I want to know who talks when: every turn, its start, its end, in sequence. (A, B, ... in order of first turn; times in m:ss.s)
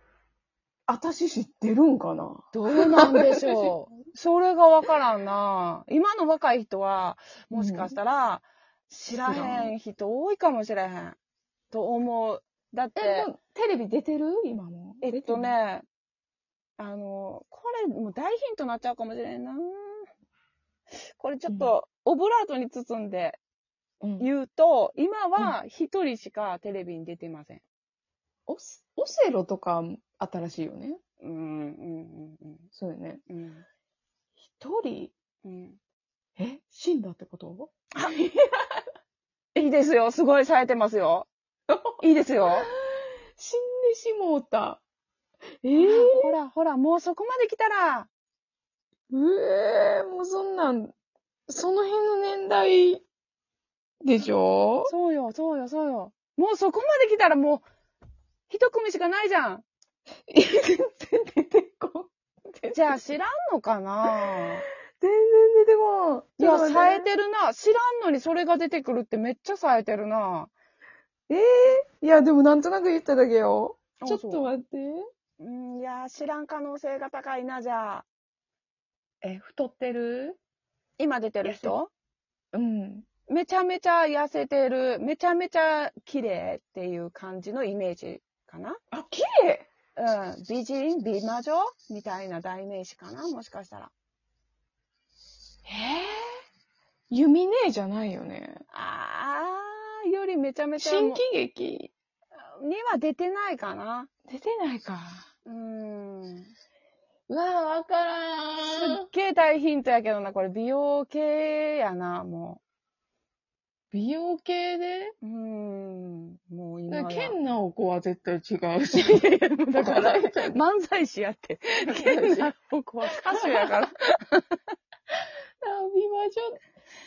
0:00.9-0:03.8 A
0:02.5-0:11.2 B
0:07.5-0:08.0 A
0:09.1-0:09.8 A
0:11.7-0:13.3 B
0:13.0-0:15.5 A
0:15.0-0:15.9 B
0:16.8-0:20.1 B
0:20.9-0:23.4 B
0:21.5-0:21.8 A
0:24.0-0:24.3 A
0:24.2-0:27.6 B
0:28.5-0:31.0 A
0:31.2-0:32.6 B
0:32.7-0:33.2 A
0:33.3-0:33.6 B
0:34.4-0:35.1 A
0:35.4-0:35.8 B
0:36.4-0:38.8 A
0:39.6-0:41.3 B
0:41.7-0:44.8 A
0:42.0-0:42.7 B
0:45.6-0:46.4 A
0:45.8-0:48.1 B
0:49.1-0:50.9 A
0:51.5-0:53.0 A
0:54.0-0:54.9 A
0:54.8-0:57.6 B
0:58.5-0:59.6 B
1:00.3-1:03.0 A
1:02.7-1:04.6 B
1:04.0-1:04.4 A
1:05.0-1:07.1 A
1:06.4-1:10.5 B
1:11.3-1:15.1 A
1:14.0-1:14.5 B
1:15.4-1:18.1 B
1:19.2-1:20.4 A
1:21.0-1:21.9 B
1:21.4-1:21.8 A
1:22.5-1:23.1 A
1:23.3-1:28.8 B
1:28.9-1:29.6 A
1:30.0-1:33.9 B
1:35.6-1:36.4 A
1:37.1-1:38.6 A
1:38.7-1:41.2 B
1:40.8-1:41.9 A
1:42.4-1:44.1 B
1:44.3-1:45.3 A
1:45.4-1:46.5 B
1:47.3-1:49.1 A
1:48.7-1:52.6 B
1:53.9-1:55.1 A
1:55.2-1:57.4 B
1:56.9-2:00.6 A
1:59.0-2:04.4 B
2:01.9-2:02.5 A
2:03.1-2:03.8 A
2:05.6-2:06.6 A